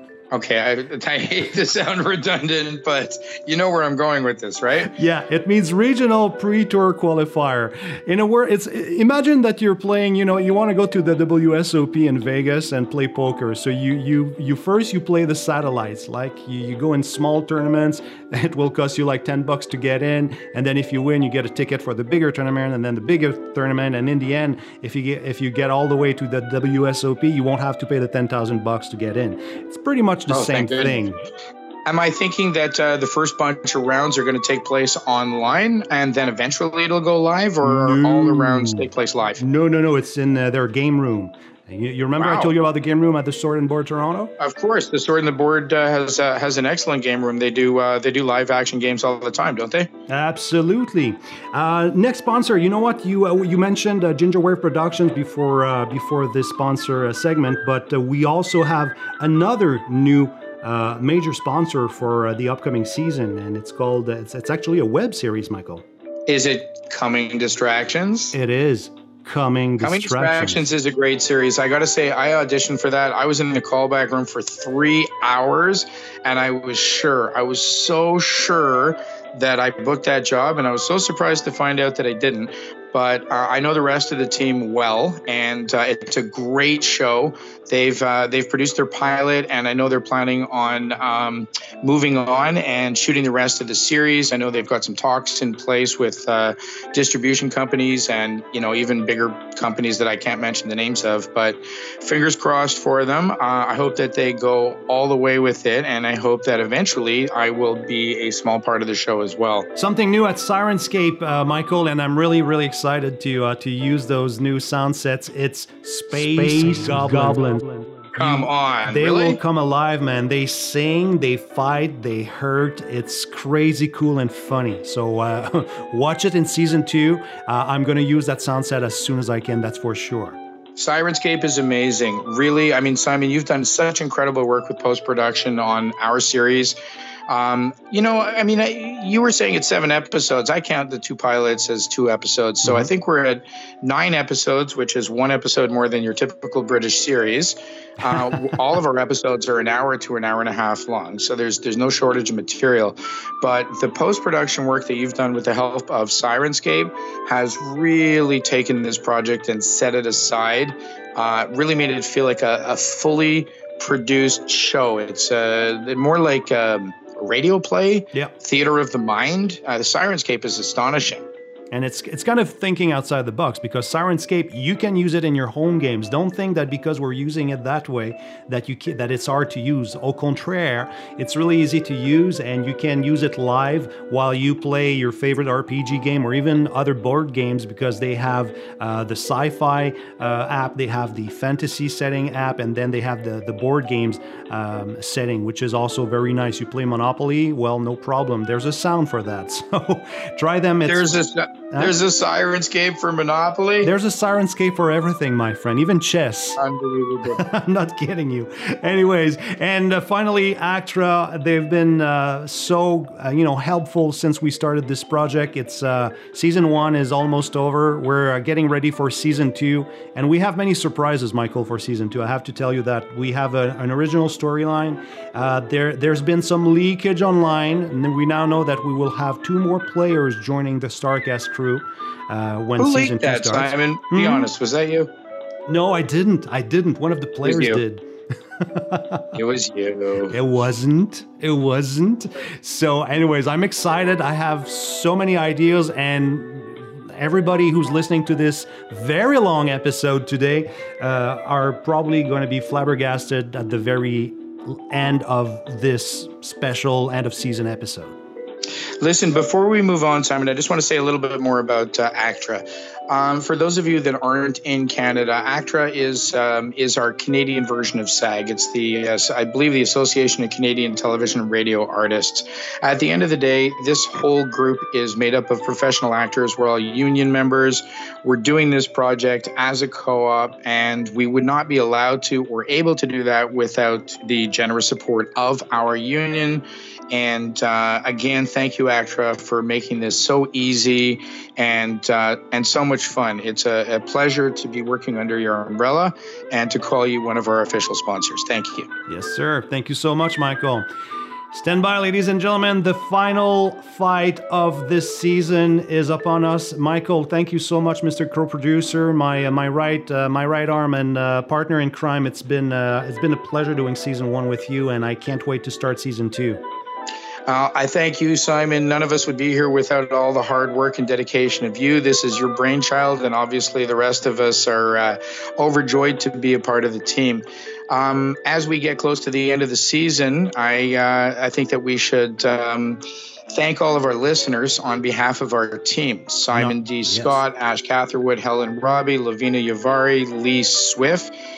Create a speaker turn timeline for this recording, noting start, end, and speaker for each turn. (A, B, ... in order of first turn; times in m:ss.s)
0:00.3-0:04.9 A
0:04.8-0:31.2 B
0:30.3-0:31.0 A
0:31.8-0:39.4 A
0:37.6-0:44.3 B
0:42.2-0:42.5 A
0:44.4-0:49.9 A
0:50.1-1:05.8 B
1:06.3-1:08.3 A
1:08.3-1:10.7 B
1:09.8-1:49.7 A
1:49.7-2:10.4 B
1:58.2-1:59.4 A
2:10.8-2:16.8 A
2:17.3-2:51.2 A
2:22.6-2:22.9 B
2:28.0-2:28.3 B
2:51.7-3:22.0 B
3:20.8-3:23.9 A
3:23.8-3:26.6 B
3:26.6-3:27.4 A
3:27.2-3:54.5 B
3:52.8-3:55.1 A
3:55.7-3:58.1 B
3:57.4-3:57.8 A
3:58.6-3:59.4 B
3:59.3-4:00.3 A
4:00.3-4:18.2 B
4:19.0-4:58.9 A
4:59.1-5:00.9 B
5:01.5-5:16.6 B
5:17.5-5:33.0 A
5:33.5-5:41.3 A
5:36.5-5:37.4 B